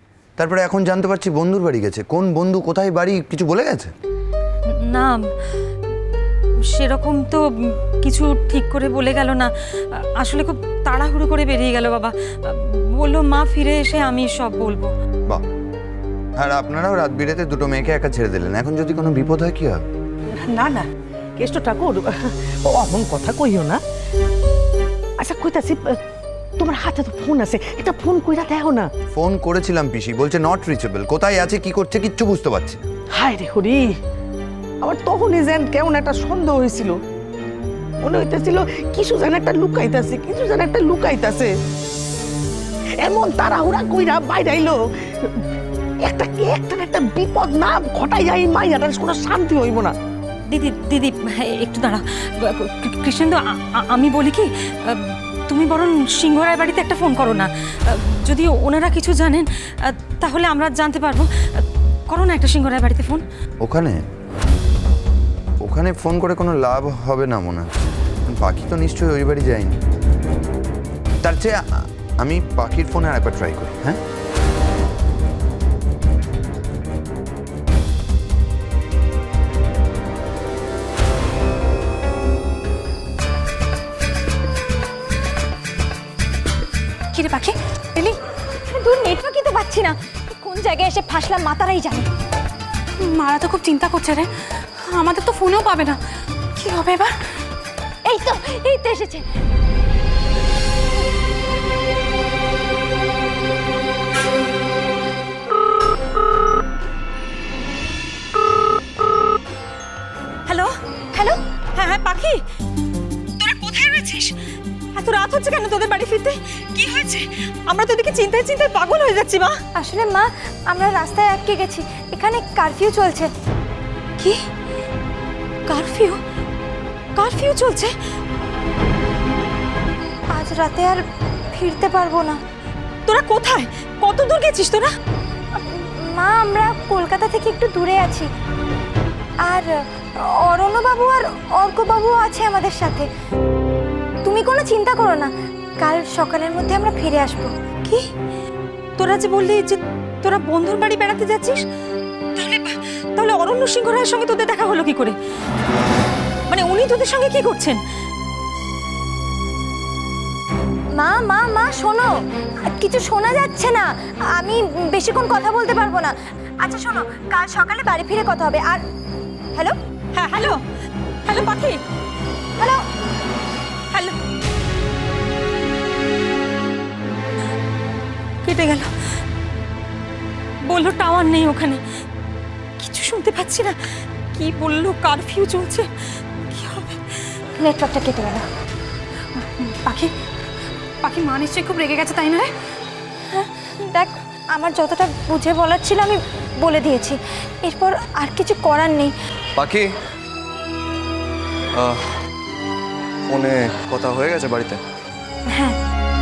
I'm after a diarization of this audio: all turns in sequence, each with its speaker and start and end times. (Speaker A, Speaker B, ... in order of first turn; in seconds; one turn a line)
Speaker A: 0.4-3.9
Speaker B: 4.7-5.2
Speaker B: 6.7-14.9
Speaker A: 16.4-19.8
Speaker C: 20.3-23.8
Speaker C: 25.2-26.0
Speaker C: 26.6-28.9
Speaker A: 29.1-32.8
Speaker C: 33.1-34.0
Speaker C: 34.8-37.0
Speaker C: 38.0-41.5
Speaker C: 43.0-45.4
Speaker C: 46.0-49.9
Speaker B: 50.5-59.5
Speaker B: 60.0-63.2
Speaker A: 63.6-64.0
Speaker A: 65.6-69.8
Speaker A: 71.2-74.0
Speaker B: 87.1-88.1
Speaker D: 87.2-87.5
Speaker E: 88.7-92.1
Speaker B: 93.0-94.3
Speaker D: 93.1-94.3
Speaker B: 94.8-96.0
Speaker D: 94.9-96.0
Speaker B: 96.6-97.1
Speaker D: 96.8-97.0
Speaker E: 98.0-99.2
Speaker B: 110.5-112.4
Speaker B: 113.4-114.4
Speaker B: 115.0-119.6
Speaker E: 119.7-123.3
Speaker B: 125.7-126.2
Speaker B: 127.2-127.9
Speaker E: 130.3-132.4
Speaker B: 133.1-134.9
Speaker E: 135.6-138.3
Speaker E: 139.4-139.7
Speaker E: 140.3-143.1
Speaker E: 144.2-147.5
Speaker B: 149.0-151.6
Speaker B: 152.3-155.1
Speaker B: 156.5-157.8
Speaker E: 160.9-168.8
Speaker B: 170.1-170.6
Speaker B: 171.2-171.8
Speaker E: 172.6-172.8
Speaker B: 178.4-178.9
Speaker B: 180.7-181.8
Speaker B: 182.8-185.9
Speaker B: 186.5-187.2
Speaker E: 187.6-188.4
Speaker B: 189.6-190.1
Speaker B: 191.0-192.4
Speaker D: 191.1-192.5
Speaker E: 193.3-199.1
Speaker F: 199.6-199.9
Speaker F: 201.7-202.1
Speaker F: 203.3-204.8